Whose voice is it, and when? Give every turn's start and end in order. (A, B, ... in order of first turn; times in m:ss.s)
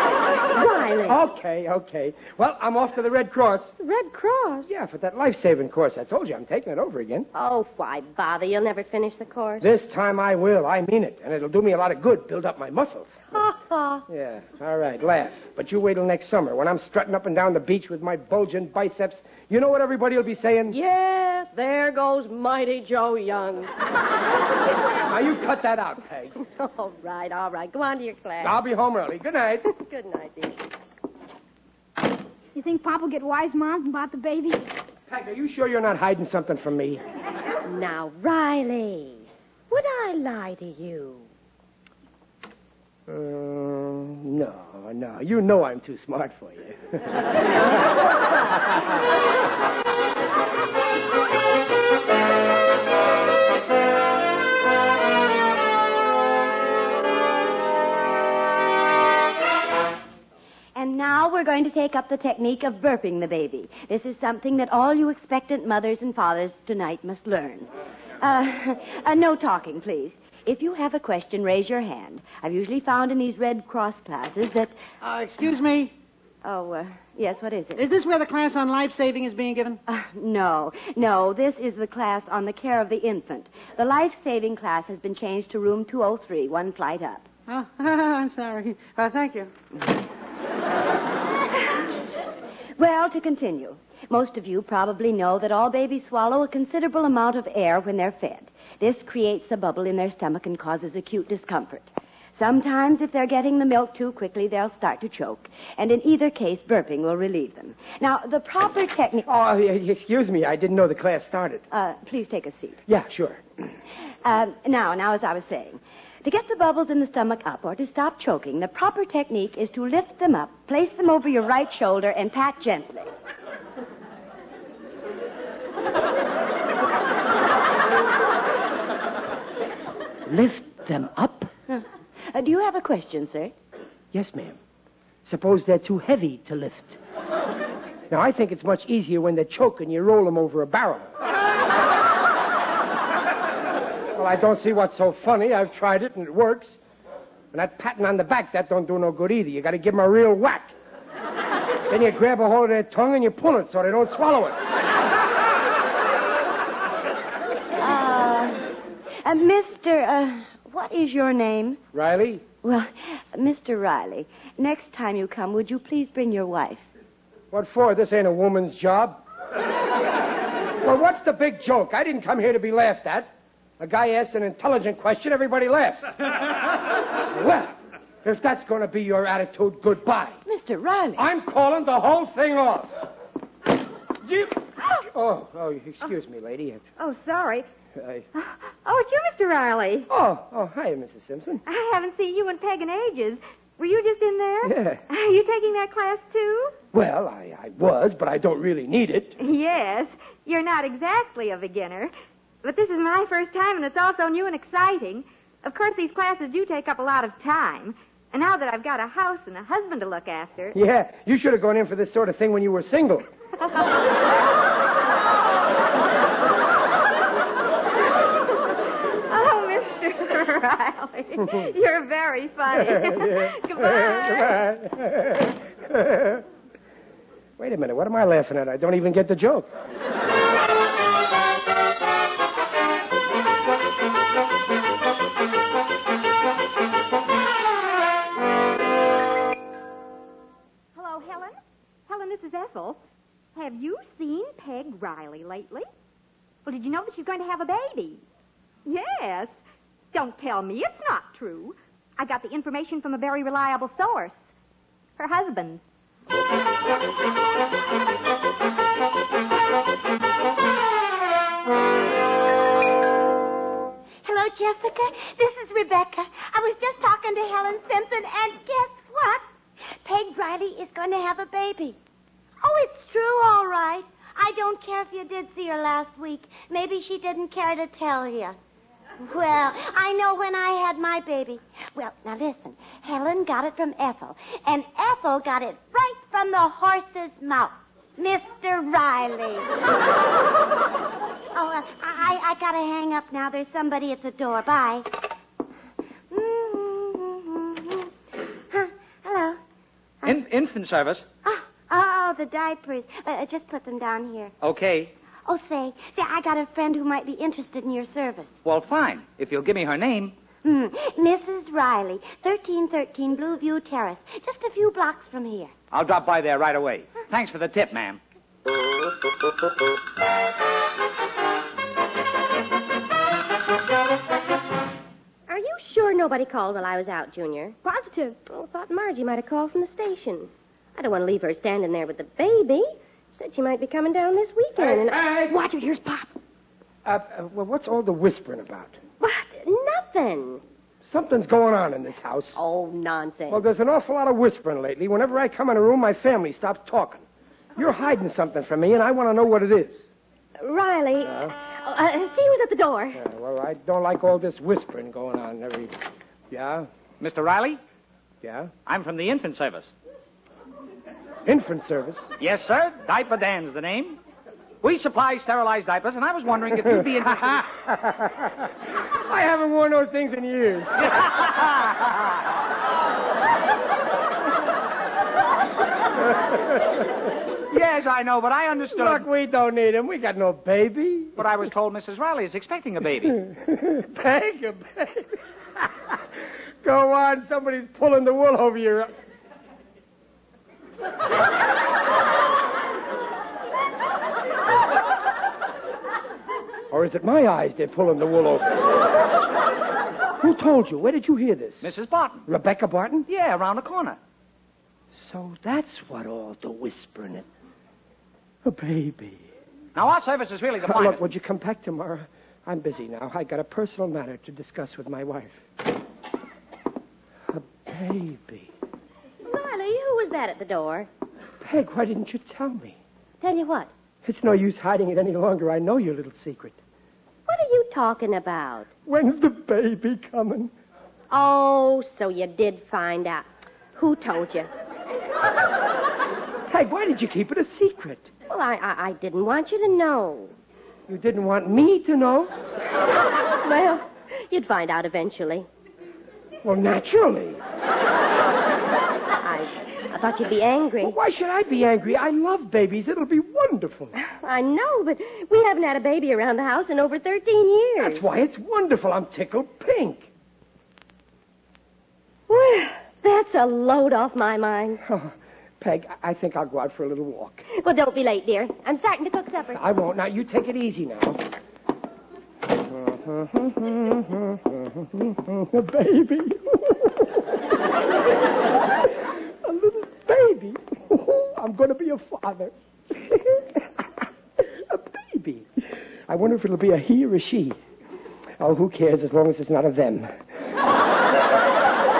0:00.5-0:01.2 A
0:01.1-0:03.8 B
0:03.8-0:04.7 A
0:04.7-0:07.3 B
0:07.3-0:09.6 A
0:09.6-0:13.2 B
0:13.3-0:14.0 A
0:14.1-0:20.8 B
0:20.7-0:23.7 A
0:25.0-0:26.3 B
0:26.4-0:28.6 A
0:28.4-0:29.7 B
0:29.6-0:30.6 A
0:32.5-0:34.7 C
0:35.1-0:37.0 B
0:37.6-0:41.3 A
0:43.1-0:47.2 B
1:00.7-1:14.7 D
1:15.0-1:15.9 E
1:16.4-1:17.8 D
1:17.8-1:19.8 E
1:19.8-1:27.3 D
1:27.5-1:29.5 E
1:32.8-1:49.3 D
1:49.2-1:51.6 B
1:51.7-1:52.8 D
1:52.9-1:53.4 B
1:54.2-2:03.1 D
2:10.2-2:11.5 B
2:11.7-2:13.5 D
2:14.1-2:14.6 B
2:15.2-2:17.0 B
2:18.1-2:21.1 B
2:24.1-2:26.8 B
2:27.5-2:30.7 B
2:31.9-2:34.6 B
2:37.8-2:38.7 D
2:39.2-2:41.8 D
2:41.9-2:42.4 B
2:42.6-2:46.8 D
2:47.5-2:49.2 B
2:50.8-3:00.4 B
3:00.4-3:01.2 D
3:01.2-3:02.9 B
3:04.2-3:06.8 B
3:07.0-3:07.7 F
3:08.0-3:08.2 B
3:08.3-3:10.1 F
3:10.1-3:11.6 B
3:11.6-3:16.7 F
3:14.6-3:15.0 B
3:16.9-3:19.4 B
3:19.4-3:22.1 F
3:22.6-3:30.7 F
3:30.7-3:33.3 B
3:39.3-3:44.7 F
3:42.7-3:46.4 B
3:47.6-3:49.7 B
4:00.9-4:01.6 F
4:02.1-4:03.0 F
4:03.5-4:05.9 F
4:06.6-4:08.2 F
4:08.8-4:09.6 F
4:10.1-4:14.4 F
4:15.2-4:15.8 F
4:24.2-4:29.4 G
4:30.0-4:32.0 G
4:32.6-4:38.6 G
4:39.2-4:49.7 G
4:51.5-4:55.1 G
4:56.3-4:58.1 G
4:58.7-4:59.6 G
5:00.2-5:01.2 H
5:01.4-5:04.5 G
5:04.6-5:05.1 H
5:05.4-5:08.5 G
5:08.6-5:10.4 H
5:10.6-5:15.7 G
5:15.9-5:18.2 H
5:25.5-5:27.8 A
5:27.8-5:28.4 C
5:28.4-5:35.8 A
5:34.8-5:35.5 B
5:37.0-5:39.0 B
5:39.2-5:40.6 A
5:41.0-5:42.6 B
5:42.6-5:43.6 A
5:43.5-5:47.2 B
5:47.8-5:50.0 B
5:50.6-5:53.2 A
5:51.2-5:51.5 B
5:53.1-5:56.9 B
5:57.2-5:57.8 H
5:58.4-5:58.7 B
5:58.8-5:59.9 H
6:01.4-6:02.2 B
6:02.4-6:04.2 H
6:04.8-6:07.7 H
6:07.9-6:08.5 B
6:09.1-6:11.4 B
6:16.5-6:16.8 B
6:17.7-6:19.2 H
6:18.9-6:21.4 B
6:21.4-6:23.4 H
6:23.4-6:25.3 B
6:26.8-6:29.1 B
6:36.9-6:38.9 B
6:40.4-6:41.8 B
6:41.8-6:42.5 H
6:42.4-6:43.3 B
6:43.3-6:44.2 H
6:45.1-6:47.4 B
6:48.6-6:49.4 B
6:49.9-6:51.3 H
6:50.8-6:55.6 B
6:57.5-6:58.7 B
6:59.4-7:01.1 A
7:01.6-7:03.0 B
7:03.4-7:03.9 A
7:04.2-7:06.8 B
7:07.5-7:08.9 A
7:09.0-7:10.7 B
7:11.3-7:14.7 A
7:16.7-7:18.3 B
7:18.5-7:20.5 A
7:21.1-7:22.5 B
7:23.6-7:25.7 A
7:26.6-7:27.6 B
7:29.4-7:31.2 A
7:31.0-7:34.1 B
7:34.2-7:38.2 A
7:38.0-7:40.3 B
7:42.5-7:45.0 A
7:45.0-7:47.6 B
7:47.7-7:49.8 A
7:49.7-7:51.4 B
7:52.7-7:57.5 B
7:59.4-8:07.8 B
8:08.6-8:10.4 B